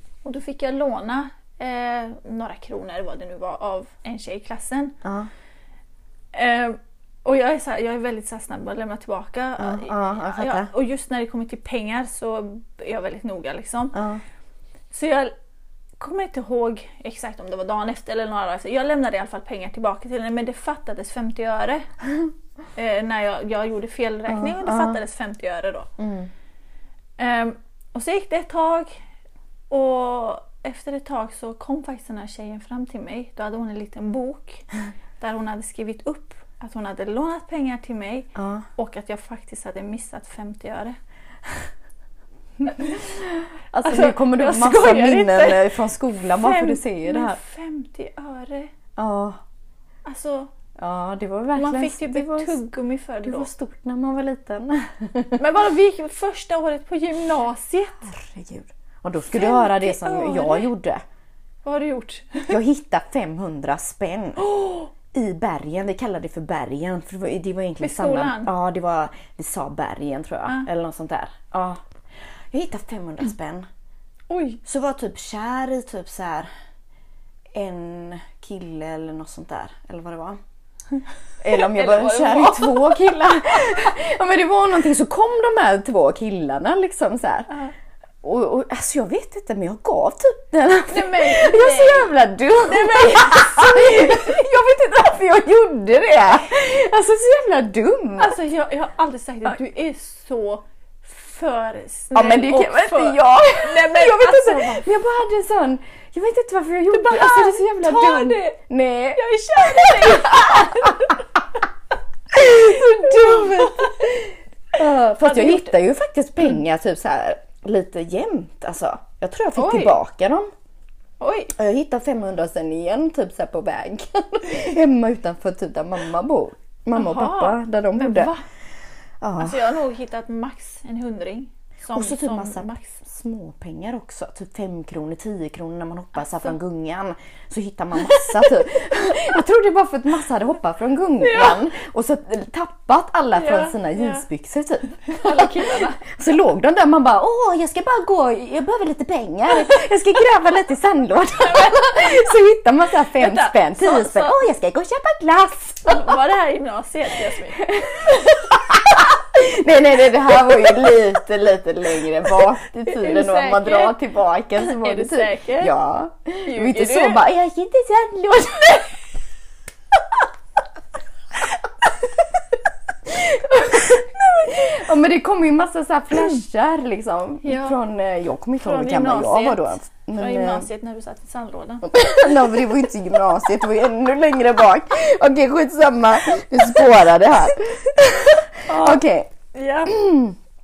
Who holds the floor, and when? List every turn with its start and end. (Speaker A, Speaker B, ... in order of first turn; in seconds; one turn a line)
Speaker A: 0.2-5.0
Speaker B: 5.0-5.3
Speaker A: 6.3-14.0
Speaker B: 9.6-10.7
Speaker B: 13.9-14.2
Speaker A: 14.9-15.3
Speaker A: 16.0-21.9
Speaker A: 22.8-25.9
Speaker B: 24.3-25.0
Speaker B: 26.0-26.3
Speaker A: 27.2-28.9
Speaker A: 29.7-34.7
Speaker A: 35.2-41.0
Speaker B: 38.4-38.6
Speaker A: 42.6-43.0
Speaker B: 42.7-47.4
Speaker A: 43.8-48.7
Speaker B: 49.0-49.4
Speaker A: 50.0-50.5
Speaker B: 50.8-52.6
Speaker A: 51.5-53.5
Speaker B: 53.2-55.4
Speaker A: 55.4-58.1
Speaker B: 58.0-61.0
Speaker A: 59.3-60.7
Speaker A: 61.6-62.6
Speaker B: 62.5-71.8
Speaker A: 64.4-64.9
Speaker A: 67.8-68.5
Speaker B: 72.5-73.7
Speaker A: 74.3-74.6
Speaker B: 74.7-76.5
Speaker B: 77.5-80.4
Speaker B: 81.4-87.5
Speaker A: 81.5-83.1
Speaker B: 88.2-98.4
Speaker A: 90.9-92.1
Speaker A: 92.7-94.4
Speaker A: 98.2-104.9
Speaker B: 102.1-111.2
Speaker A: 106.9-108.6
Speaker A: 109.2-111.2
Speaker B: 112.3-120.5
Speaker A: 112.4-114.2
Speaker A: 115.2-115.8
Speaker A: 119.5-120.0
Speaker A: 121.2-121.5
Speaker B: 121.5-128.3
Speaker A: 126.9-128.4
Speaker B: 129.2-129.7
Speaker A: 129.4-133.0
Speaker B: 131.9-156.2
Speaker A: 141.2-141.6
Speaker A: 143.3-144.2
Speaker A: 145.1-146.0
Speaker A: 151.4-152.2
Speaker A: 153.2-154.4
Speaker A: 155.8-158.4
Speaker B: 157.6-169.0
Speaker A: 162.8-164.0
Speaker A: 164.6-165.7
Speaker A: 166.5-167.2
Speaker B: 173.1-180.7
Speaker A: 177.4-177.8
Speaker A: 178.6-182.4
Speaker B: 181.8-189.3
Speaker A: 188.7-190.0
Speaker B: 189.9-190.4